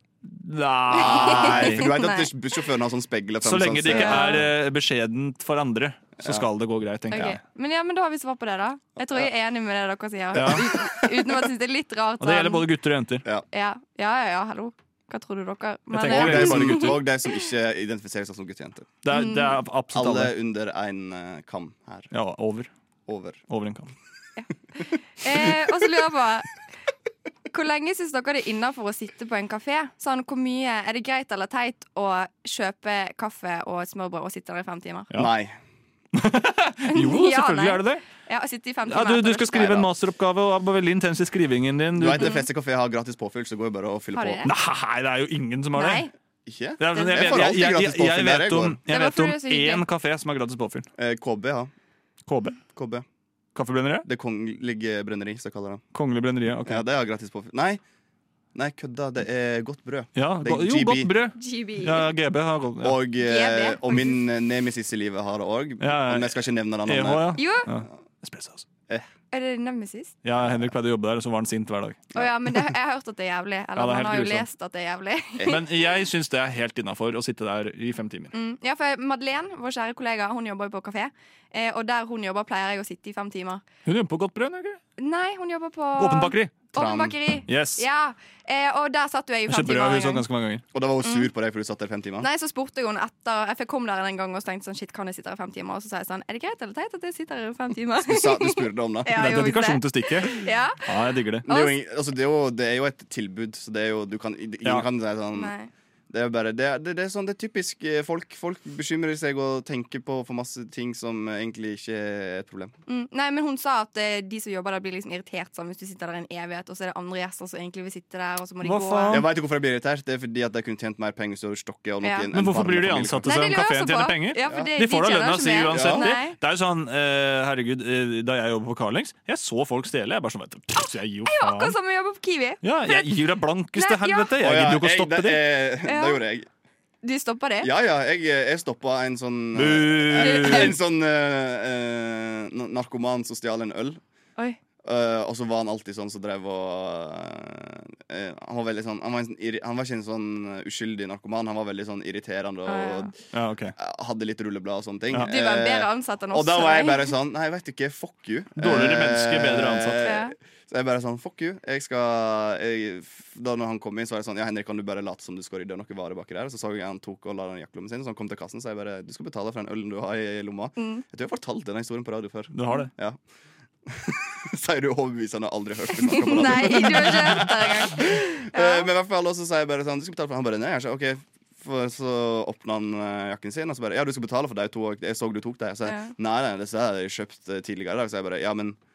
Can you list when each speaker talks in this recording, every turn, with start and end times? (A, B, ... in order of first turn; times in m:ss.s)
0:00.2-0:01.9 A
0:00.9-0:02.3 B
0:00.9-0:04.5 C
0:03.4-0:07.4 A
0:03.9-0:04.4 B
0:06.2-0:06.5 C
0:07.1-0:12.7 B
0:10.3-0:10.7 A
0:10.4-0:11.3 C
0:12.2-0:13.2 A
0:13.5-0:17.4 B
0:15.9-0:17.0 A
0:16.1-0:19.0 C
0:19.0-0:20.3 A
0:19.1-0:19.6 B
0:19.9-0:22.1 C
0:22.1-0:22.7 A
0:23.1-0:23.4 C
0:23.5-0:23.9 A
0:25.2-0:26.5 B
0:27.5-0:35.1 B
0:35.1-0:35.6 C
0:36.1-0:38.0 A
0:36.9-0:39.8 B
0:38.9-0:42.3 A
0:39.5-0:39.9 C
0:42.0-0:44.5 C
0:42.2-0:42.4 B
0:44.1-0:44.5 B
0:44.4-0:46.1 A
0:45.7-0:46.1 B
0:46.4-0:48.8 C
0:46.8-0:50.9 A
0:46.9-0:47.3 B
0:48.9-0:49.8 B
0:51.0-0:51.7 C
0:52.3-0:52.6 A
0:52.7-0:53.0 C
0:53.6-0:54.1 A
0:54.0-0:55.8 C
0:55.9-0:56.8 A
0:56.7-0:57.8 C
0:58.6-1:01.1 C
1:00.2-1:03.0 A
1:01.4-1:02.1 B
1:02.8-1:07.4 C
1:03.2-1:04.2 B
1:05.8-1:08.7 A
1:07.4-1:07.7 B
1:09.3-1:10.1 B
1:10.2-1:12.1 A
1:12.1-1:15.8 B
1:13.8-1:14.4 A
1:15.4-1:18.3 A
1:18.3-1:23.6 B
1:23.9-1:24.8 A
1:25.0-1:30.2 B
1:26.0-1:26.6 A
1:26.7-1:27.2 C
1:27.5-1:27.8 A
1:29.5-1:30.6 A
1:30.7-1:32.3 C
1:32.2-1:40.8 B
1:38.0-1:39.2 C
1:39.1-1:41.4 A
1:41.4-1:41.8 B
1:41.4-1:45.5 C
1:45.3-1:45.7 B
1:46.1-1:52.7 C
1:52.9-1:59.2 B
1:58.6-1:59.3 A
1:59.1-2:03.3 C
2:02.0-2:02.3 B
2:02.3-2:11.7 A
2:03.2-2:06.4 B
2:05.7-2:06.1 C
2:11.3-2:13.1 B
2:12.6-2:15.4 A
2:13.7-2:14.3 B
2:14.4-2:16.5 C
2:15.8-2:16.2 B
2:17.0-2:17.7 B
2:17.6-2:24.0 C
2:19.6-2:20.8 A
2:20.2-2:20.7 B
2:24.8-2:33.1 C
2:32.7-2:33.1 B
2:33.3-2:33.7 A
2:33.8-2:53.2 C
2:35.2-2:37.1 B
2:38.6-2:40.1 A
2:40.0-2:40.3 B
2:50.8-2:51.0 B
2:52.5-2:52.9 A
2:53.8-3:08.8 C
2:56.1-2:58.9 B
3:05.8-3:06.1 B